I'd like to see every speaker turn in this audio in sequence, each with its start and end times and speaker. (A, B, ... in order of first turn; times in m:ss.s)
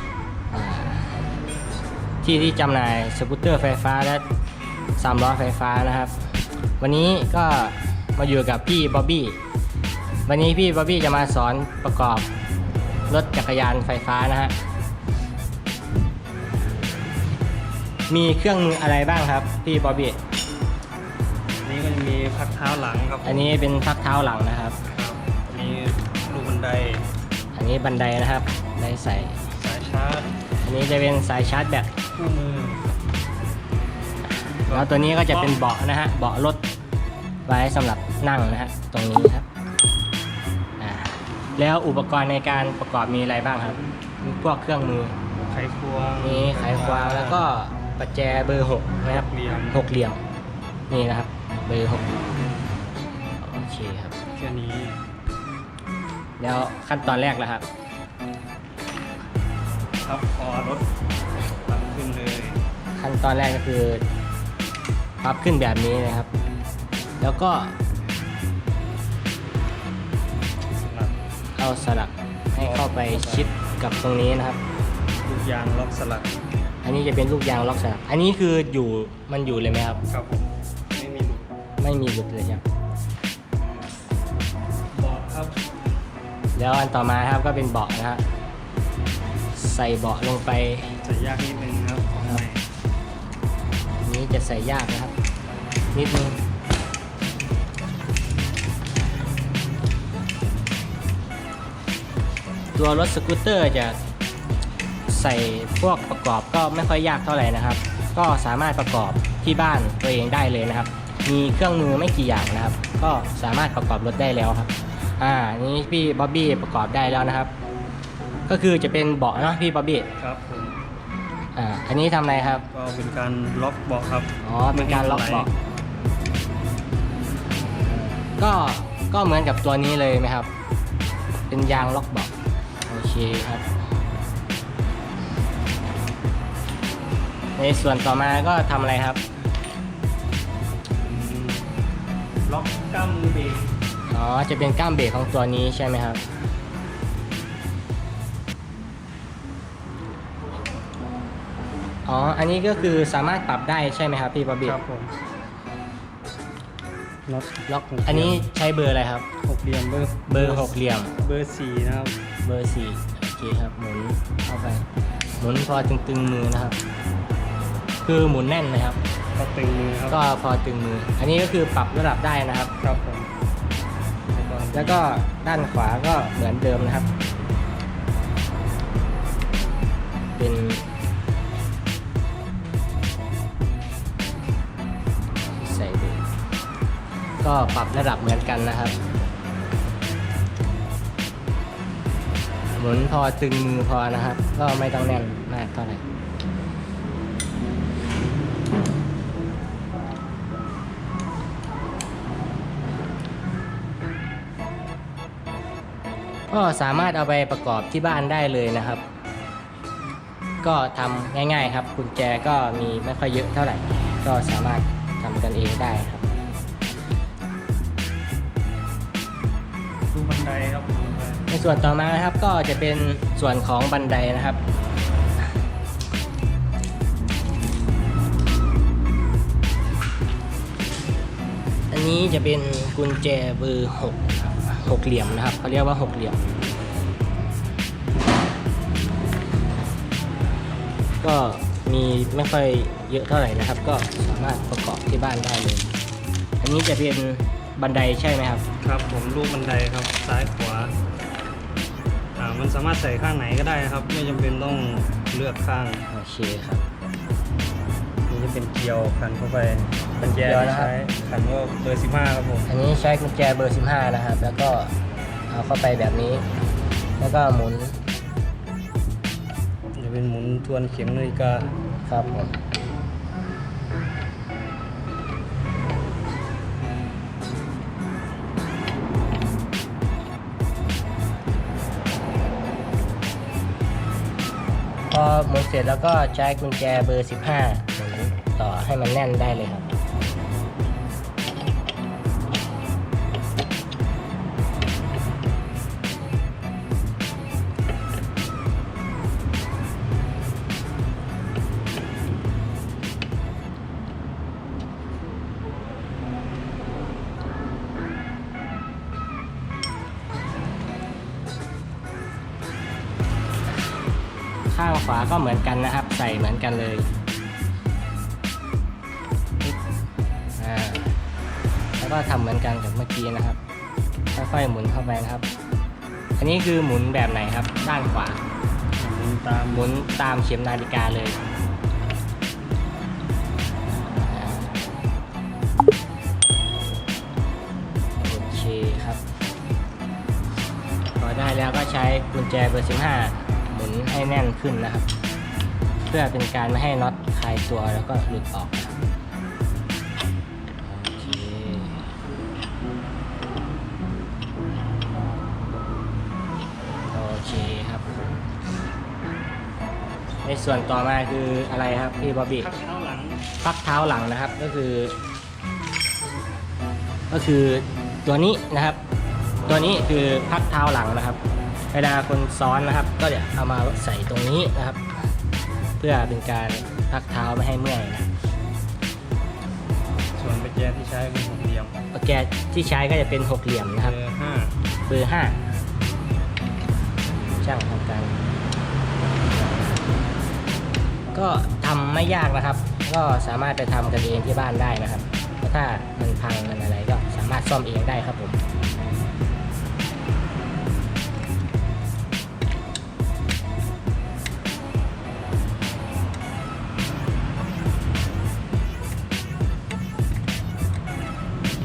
0:00.5-0:01.2 A
0:02.2-0:04.2 A
0:05.0-0:06.3 A
0:06.8-0:09.4 A
0:10.3-0:12.3 A
0:13.1-0:14.6 A
0:18.1-0:20.2 A
0:21.6-0:23.6 B
0:23.2-0:24.8 A
0:25.0-0:27.1 B
0:27.6-0:29.4 A
0:29.6-0:30.4 B
0:30.6-0:32.0 A
0:32.2-0:32.9 B
0:34.7-0:35.6 B
0:34.7-0:36.6 A
0:37.5-0:39.5 A
0:40.8-0:45.2 A
0:45.5-0:47.5 B
0:46.2-0:50.2 A
0:49.1-0:49.8 B
0:50.9-0:52.2 A
0:53.4-0:54.2 A
0:54.4-0:55.0 B
0:56.4-0:57.7 A
1:00.0-1:00.9 B
1:01.7-1:02.6 B
1:03.0-1:04.0 A
1:05.2-1:06.3 A
1:07.2-1:07.8 A
1:10.8-1:11.2 B
1:11.6-1:14.6 A
1:12.6-1:13.5 B
1:15.2-1:16.4 B
1:16.8-1:20.0 A
1:20.1-1:21.5 B
1:21.8-1:22.6 A
1:24.9-1:25.6 B
1:26.6-1:28.2 A
1:29.6-1:31.0 A
1:31.0-1:32.7 B
1:34.0-1:35.1 A
1:35.9-1:36.4 A
1:42.8-1:44.0 A
1:45.1-1:57.5 A
1:58.5-2:00.1 A
2:00.2-2:00.8 B
2:01.6-2:02.7 A
2:02.7-2:05.5 B
2:04.4-2:05.5 A
2:07.8-2:10.5 A
2:11.5-2:12.3 A
2:12.8-2:13.6 A
2:17.6-2:19.2 A
2:21.0-2:21.7 B
2:22.5-2:23.7 B
2:24.1-2:26.2 A
2:32.1-2:34.8 A
2:34.6-2:35.1 B
2:37.3-2:38.4 B
2:37.7-2:39.3 A
2:39.4-2:42.2 B
2:40.3-2:41.1 A
2:42.4-2:44.9 A
2:45.4-2:46.8 A
2:48.0-2:49.0 A
2:49.4-2:50.2 B
2:50.1-2:52.7 A
2:52.8-2:53.3 B
2:54.3-2:55.1 B
2:54.7-2:57.1 A
3:00.4-3:00.8 A
3:05.5-3:06.2 A
3:07.4-3:09.0 A
3:12.8-3:16.0 A
3:26.5-3:29.0 A
3:30.6-3:36.3 A
3:40.1-3:41.5 B
3:41.5-3:44.6 A
3:51.9-3:56.4 A
4:01.2-4:05.9 A
4:06.6-4:08.6 A
4:08.8-4:11.0 B
4:12.4-4:16.0 B
4:16.1-4:16.8 A
4:18.3-4:22.7 B
4:20.4-4:20.9 A
4:22.7-4:24.9 A
4:25.5-4:26.4 A
4:27.2-4:28.0 A
4:30.0-4:31.7 B
4:32.1-4:32.6 A
4:45.1-4:49.9 A
5:14.7-5:17.1 A
5:20.6-5:21.2 A
5:22.0-5:23.6 A
5:24.3-5:25.4 A
5:26.4-5:28.4 A
5:29.0-5:29.9 B
5:29.7-5:31.4 A
5:34.1-5:34.7 A
5:38.2-5:39.2 A
5:41.2-5:45.1 A
5:46.1-5:48.9 A
5:50.8-5:52.1 A
5:57.1-5:58.1 A
6:00.4-6:02.7 A
6:02.6-6:03.5 B
6:03.6-6:05.2 A
6:07.3-6:09.0 A
6:09.7-6:11.4 A
6:11.9-6:15.1 A
6:16.0-6:18.3 A
6:20.4-6:22.0 B
6:22.1-6:24.2 A
6:24.0-6:24.8 B
6:25.1-6:25.6 A
6:27.5-6:28.4 A
6:31.3-6:38.6 A